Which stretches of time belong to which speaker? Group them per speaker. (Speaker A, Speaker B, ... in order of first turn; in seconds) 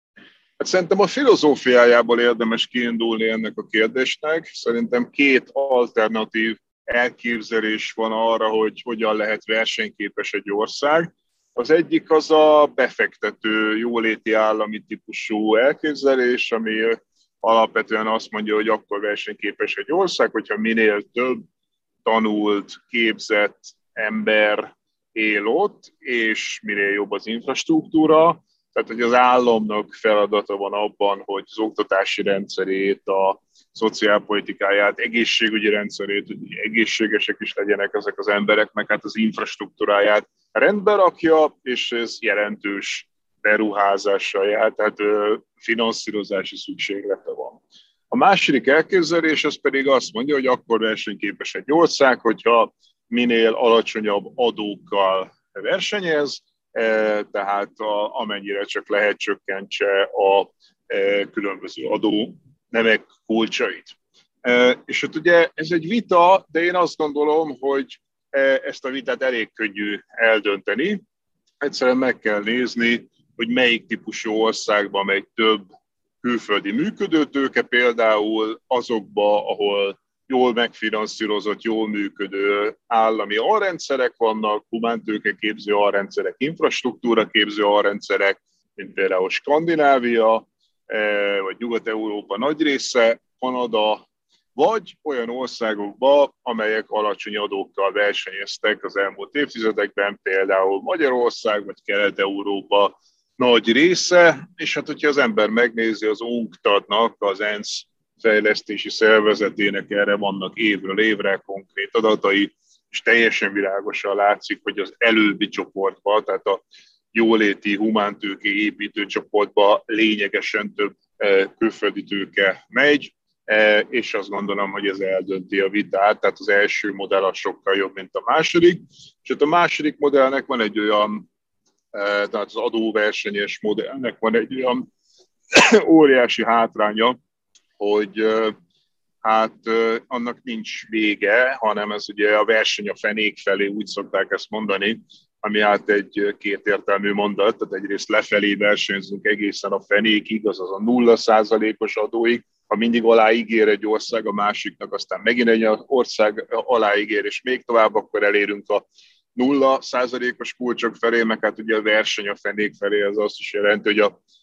Speaker A: 0.6-21.4, 22.0-47.6, 48.1-71.0, 71.6-75.7, 76.2-94.0, 94.5-131.2, 131.9-134.8, 135.5-137.2, 137.8-138.5, 139.2-158.8, 159.3-164.2